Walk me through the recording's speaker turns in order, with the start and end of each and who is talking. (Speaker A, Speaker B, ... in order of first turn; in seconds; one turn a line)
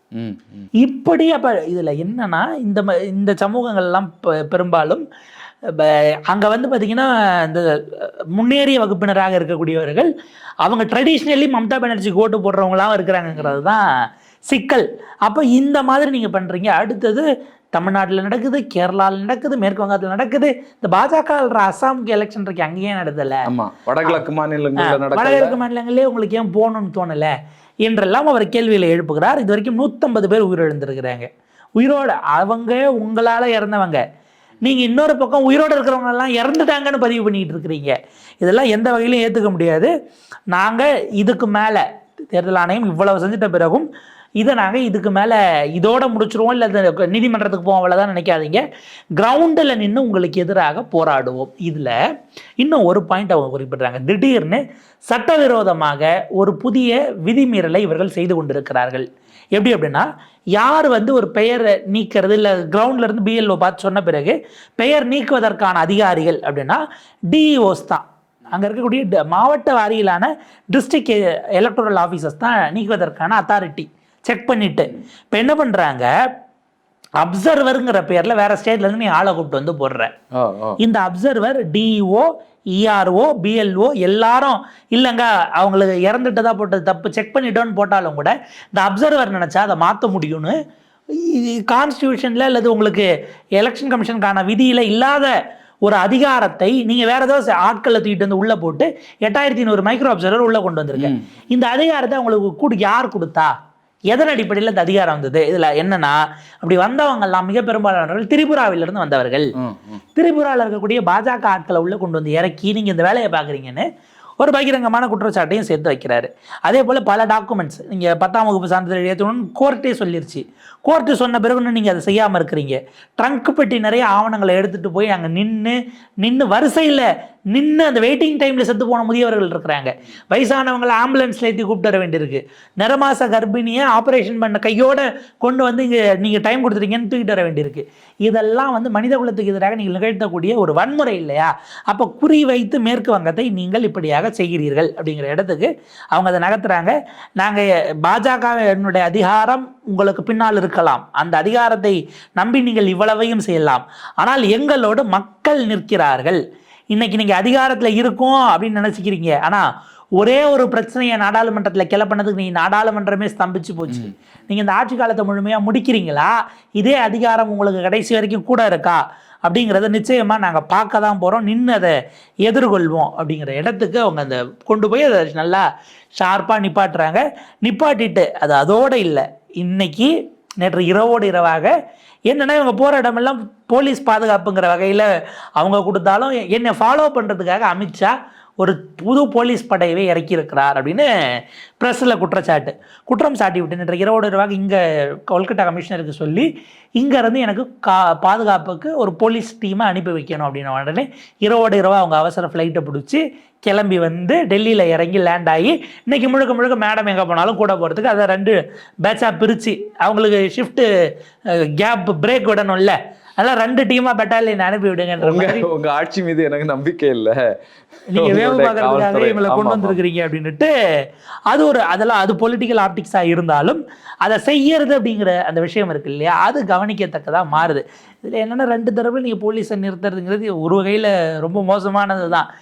Speaker A: 0.1-0.7
Speaker B: 0.8-5.0
Speaker B: 5.7-10.1
Speaker B: 10.6-13.9
Speaker B: 14.5-23.5
Speaker A: 23.5-25.6
Speaker B: 24.8-27.3
Speaker B: 27.8-34.0
Speaker B: 34.6-39.9
Speaker B: 40.5-43.9
Speaker B: 44.4-48.6
Speaker B: 49.1-52.0
Speaker B: 52.6-76.1
Speaker B: 77.2-80.1
Speaker A: 80.3-80.8
Speaker B: 80.8-90.5
Speaker B: 91.1-103.5
Speaker A: 101.0-101.2
Speaker B: 104.1-109.5
Speaker A: 109.6-110.0
Speaker B: 110.1-113.8
Speaker B: 114.4-156.4
Speaker B: 156.9-159.6
Speaker B: 160.2-175.6
Speaker B: 176.2-181.7
Speaker B: 182.3-185.1
Speaker B: 185.6-191.1
Speaker B: 191.8-196.5
Speaker B: 197.0-210.9
Speaker B: 211.5-215.7
Speaker A: 215.2-217.4
Speaker B: 218.1-220.7
Speaker A: 218.1-220.0
Speaker B: 221.5-232.4